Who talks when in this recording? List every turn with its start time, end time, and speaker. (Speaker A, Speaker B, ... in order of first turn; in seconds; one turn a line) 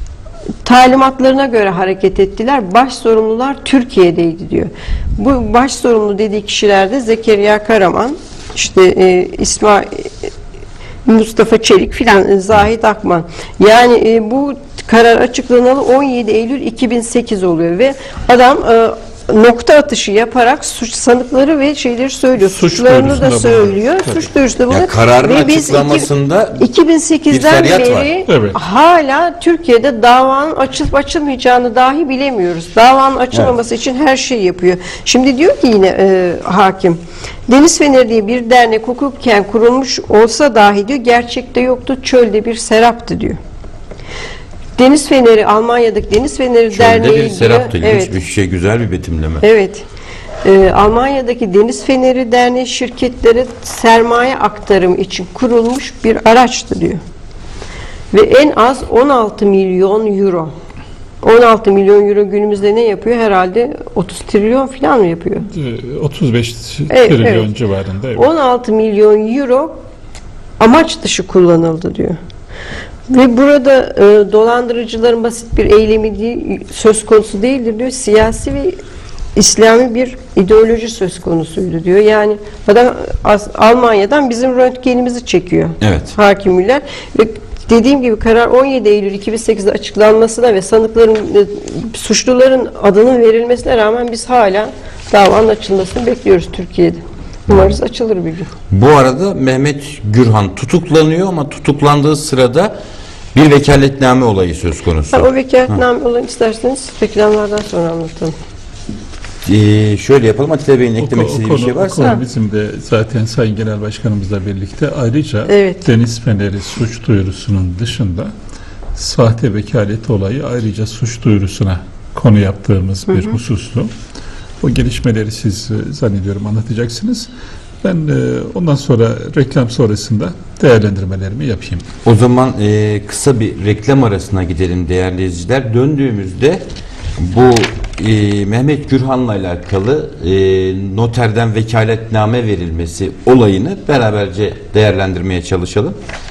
Speaker A: 0.6-10.3
Speaker A: 11.1-26.1
Speaker B: 22.4-24.3
Speaker C: 24.7-26.6
Speaker A: 26.6-43.4
Speaker C: 27.3-28.1
Speaker B: 28.3-28.6
Speaker A: 44.8-48.1
Speaker C: 46.7-49.4
Speaker A: 49.4-49.8
Speaker A: 50.4-57.0
Speaker A: 58.1-60.5
Speaker A: 61.2-65.5
Speaker B: 65.5-68.2
Speaker A: 66.9-67.5
Speaker A: 68.1-69.8
Speaker A: 70.6-72.2
Speaker A: 73.1-78.8
Speaker A: 79.3-98.5
Speaker C: 85.8-86.1
Speaker C: 97.5-97.8
Speaker C: 98.7-102.7
Speaker C: 103.3-105.8
Speaker A: 105.1-108.3
Speaker C: 109.5-112.1
Speaker B: 111.0-118.3
Speaker A: 115.5-115.8
Speaker B: 119.0-123.9
Speaker A: 123.1-123.4
Speaker B: 124.6-127.3
Speaker B: 127.8-131.8
Speaker C: 132.0-136.6
Speaker C: 137.2-145.9